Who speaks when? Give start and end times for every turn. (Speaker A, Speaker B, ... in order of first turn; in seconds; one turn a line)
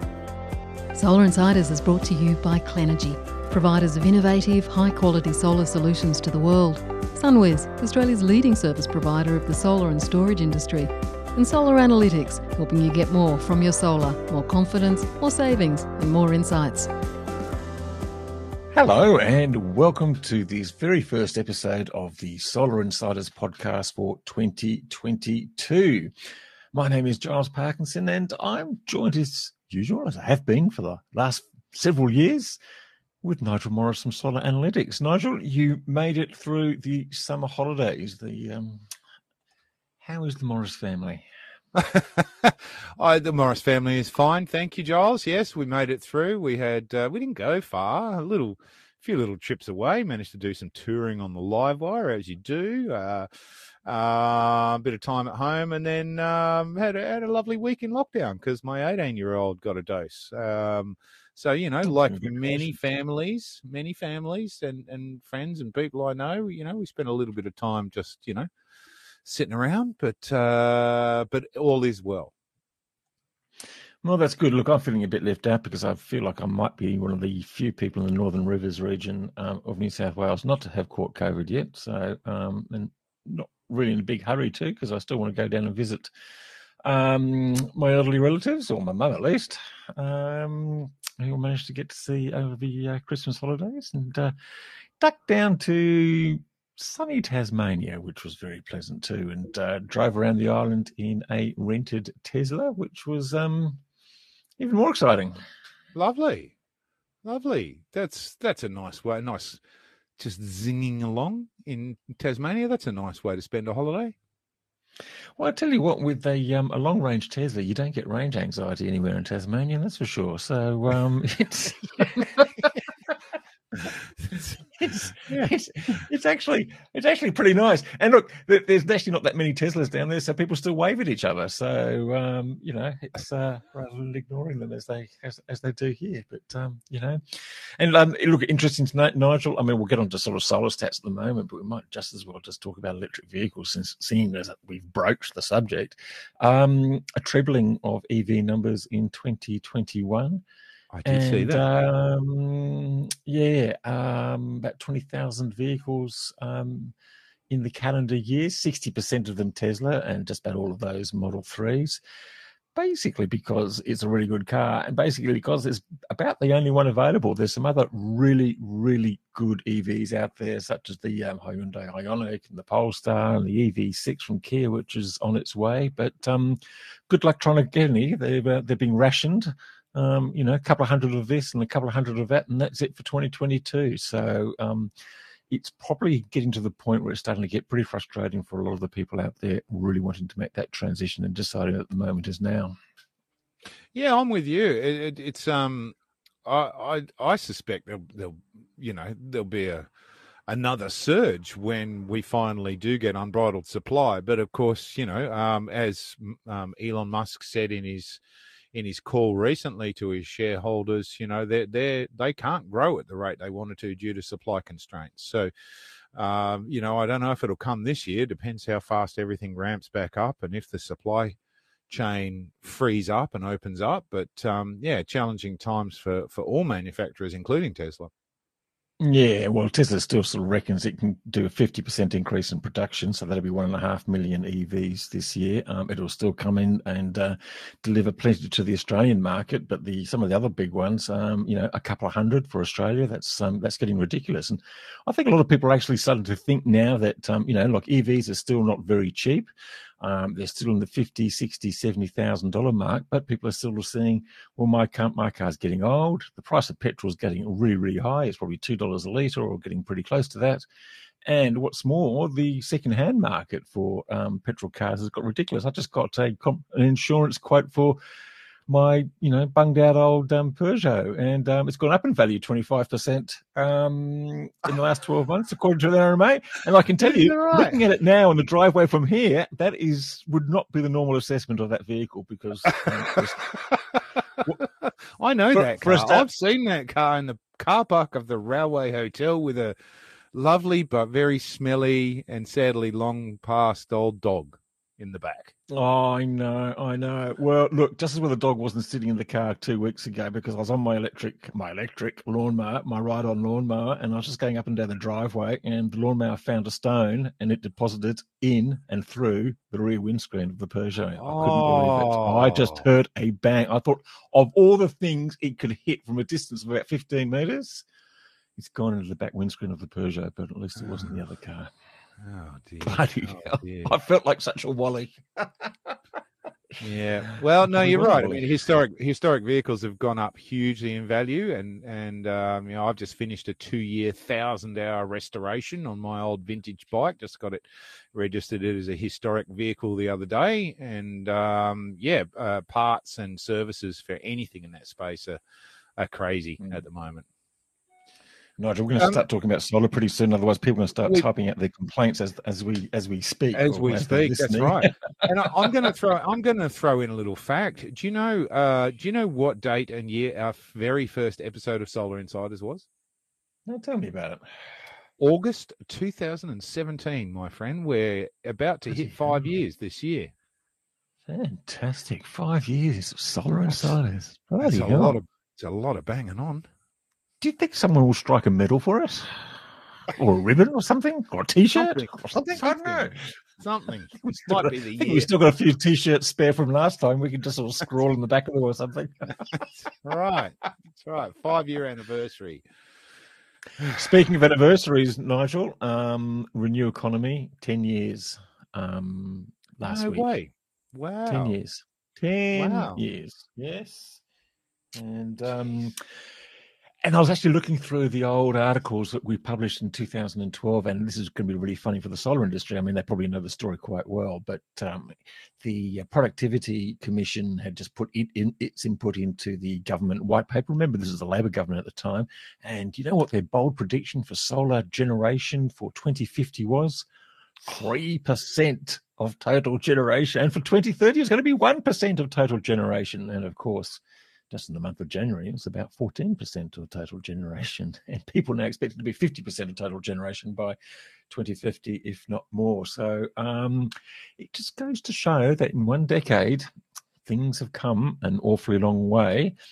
Speaker A: 0.9-16.9
Speaker B: 18.7-26.1
Speaker B: 26.7-32.6
Speaker B: 33.2-38.9
Speaker B: 40.0-41.3
Speaker C: 41.8-53.3
Speaker C: 53.9-68.5
Speaker B: 61.8-62.8
Speaker C: 69.2-72.3
Speaker B: 74.0-86.1
Speaker B: 86.8-94.3
Speaker B: 95.0-103.8
Speaker B: 104.6-105.4
Speaker C: 105.9-106.5
Speaker C: 107.2-109.6
Speaker C: 110.2-114.1
Speaker B: 115.4-123.2
Speaker B: 124.8-150.4
Speaker C: 125.2-126.0
Speaker C: 150.9-151.6
Speaker B: 151.1-156.9
Speaker B: 157.5-162.0
Speaker B: 162.7-184.9
Speaker B: 185.5-192.8
Speaker C: 193.9-199.9
Speaker C: 200.5-208.2
Speaker C: 208.7-215.5
Speaker C: 216.1-221.4
Speaker C: 221.9-228.1
Speaker B: 229.0-249.5
Speaker B: 250.0-260.6
Speaker B: 261.2-268.0
Speaker B: 268.7-283.7
Speaker C: 277.0-277.8
Speaker C: 282.8-289.8
Speaker B: 285.5-286.3
Speaker C: 290.3-295.5
Speaker B: 295.7-317.9
Speaker C: 311.2-312.9
Speaker B: 318.6-321.7
Speaker C: 322.2-323.9
Speaker B: 322.8-326.0
Speaker C: 326.8-345.4
Speaker B: 327.2-328.5
Speaker C: 346.0-347.3
Speaker B: 348.6-355.9
Speaker C: 349.0-349.2
Speaker C: 353.5-362.9
Speaker B: 363.7-364.4
Speaker C: 365.2-370.3
Speaker B: 368.9-369.4
Speaker B: 371.3-375.2
Speaker C: 374.6-376.7
Speaker B: 377.4-383.2
Speaker C: 381.7-385.3
Speaker B: 384.2-389.7
Speaker C: 389.8-392.6
Speaker C: 393.8-394.0
Speaker B: 393.9-400.3
Speaker C: 399.8-401.5
Speaker B: 401.3-404.2
Speaker C: 402.5-403.0
Speaker B: 404.9-406.1
Speaker B: 407.0-427.1
Speaker B: 427.6-440.8
Speaker B: 441.3-446.7
Speaker B: 447.2-449.5